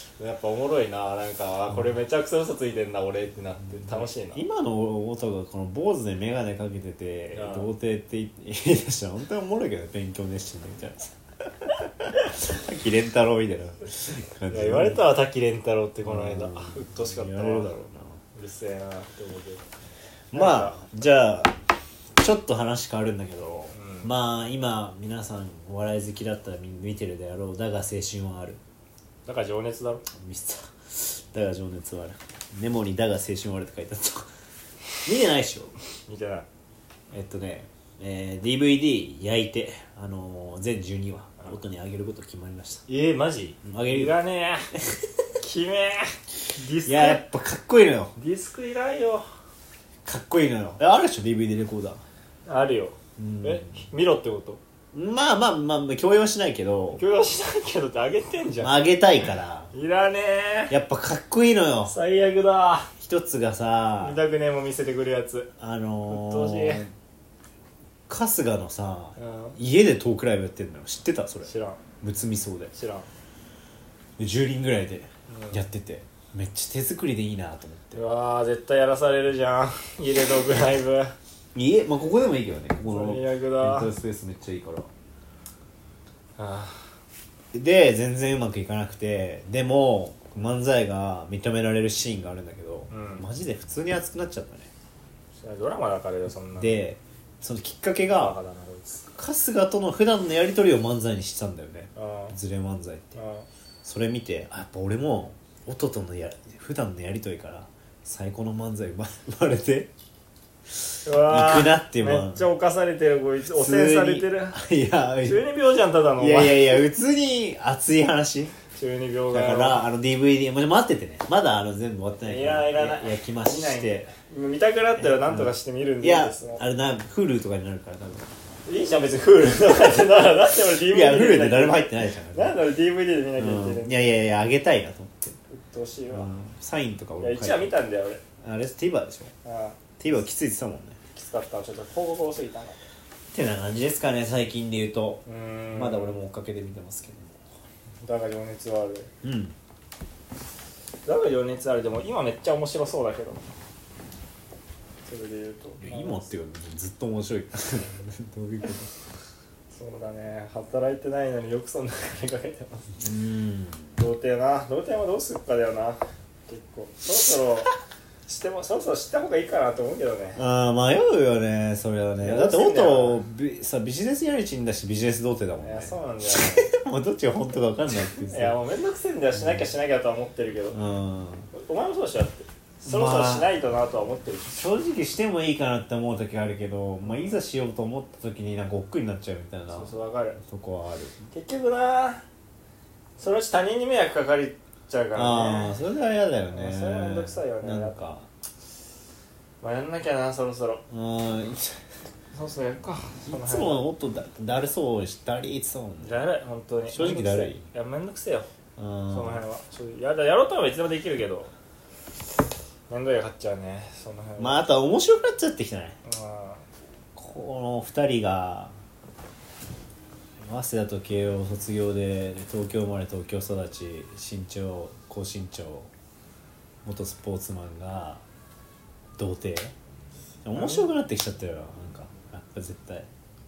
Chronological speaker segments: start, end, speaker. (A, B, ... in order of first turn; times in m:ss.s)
0:00.2-0:04.4 A
0:03.8-0:15.0 B
0:07.3-0:07.7 A
0:14.5-0:17.8 A
0:16.0-0:18.2 B
0:18.4-0:19.6 A
0:20.3-0:21.5 B
0:20.3-0:20.9 A
0:22.2-0:28.6 B
0:23.7-0:24.1 A
0:29.3-0:30.1 A
0:30.1-0:34.3 B
0:35.0-0:35.7 B
0:36.1-0:36.5 A
0:37.1-0:42.8 B
0:42.9-0:44.7 A
0:43.6-0:44.2 B
0:45.4-0:47.2 A
0:46.8-0:48.1 B
0:48.2-0:49.3 A
0:50.0-0:52.0 B
0:52.5-0:54.6 A
0:53.2-0:53.8 B
0:54.9-0:57.0 B
0:57.0-0:58.8 A
0:58.6-0:59.7 B
0:59.7-1:00.7 A
1:00.7-1:02.0 B
1:01.9-1:02.9 A
1:03.0-1:04.2 B
1:04.0-1:05.5 A
1:05.6-1:06.9 B
1:06.1-1:06.8 A
1:08.1-1:11.5 B
1:09.2-1:09.6 A
1:11.5-1:11.8 A
1:12.0-1:12.7 B
1:12.7-1:13.1 A
1:14.2-1:18.0 B
1:15.3-1:15.6 A
1:17.9-1:21.1 A
1:21.5-1:24.9 B
1:22.9-1:23.9 A
1:26.4-1:26.9 A
1:27.5-1:34.7 B
1:32.9-1:33.2 A
1:35.4-1:36.8 A
1:36.6-1:38.4 B
1:38.1-1:39.0 A
1:39.2-1:43.2 B
1:42.0-1:42.4 A
1:43.2-1:43.5 A
1:43.8-1:49.9 B
1:51.1-1:54.6 A
1:51.2-1:52.5 B
1:53.5-1:55.4 B
1:55.2-1:56.8 A
1:56.2-1:58.6 B
1:58.7-1:59.8 A
1:59.3-2:04.1 B
2:02.2-2:06.6 A
2:05.0-2:05.5 B
2:06.0-2:08.3 B
2:08.7-2:14.0 A
2:10.9-2:12.6 B
2:13.4-2:15.4 B
2:15.5-2:16.3 A
2:16.1-2:17.7 B
2:17.2-2:18.2 A
2:18.4-2:19.3 B
2:19.4-2:19.8 A
2:20.0-2:21.0 B
2:21.1-2:22.8 A
2:23.3-2:27.4 B
2:25.3-2:26.2 A
2:28.0-2:29.1 A
2:29.2-2:29.6 B
2:31.1-2:33.5 A
2:35.1-2:36.3 A
2:35.8-2:38.9 B
2:39.7-2:42.9 A
2:43.0-2:43.9 B
2:44.0-2:47.7 A
2:48.3-2:50.4 A
2:50.4-2:58.6 B
2:52.2-2:53.2 A
2:55.6-2:56.7 A
2:58.2-3:00.8 A
2:59.4-2:59.6 B
3:00.7-3:01.5 B
3:01.5-3:04.6 A
3:02.8-3:03.5 B
3:04.5-3:11.2 B
3:07.0-3:07.3 A
3:09.7-3:10.4 A
3:11.3-3:12.2 A
3:13.2-3:15.7 A
3:15.2-3:18.3 B
3:16.5-3:18.0 A
3:19.6-3:20.8 A
3:20.9-3:21.8 B
3:22.3-3:23.8 A
3:23.3-3:26.2 B
3:26.0-3:28.5 A
3:26.9-3:27.6 B
3:28.8-3:29.4 B
3:29.1-3:31.5 A
3:32.9-3:34.6 A
3:34.4-3:36.0 B
3:36.0-3:36.6 A
3:37.2-3:38.8 B
3:40.4-3:45.9 B
3:46.8-3:48.2 B
3:49.2-3:49.7 B
3:50.4-3:53.1 B
3:50.5-3:50.9 A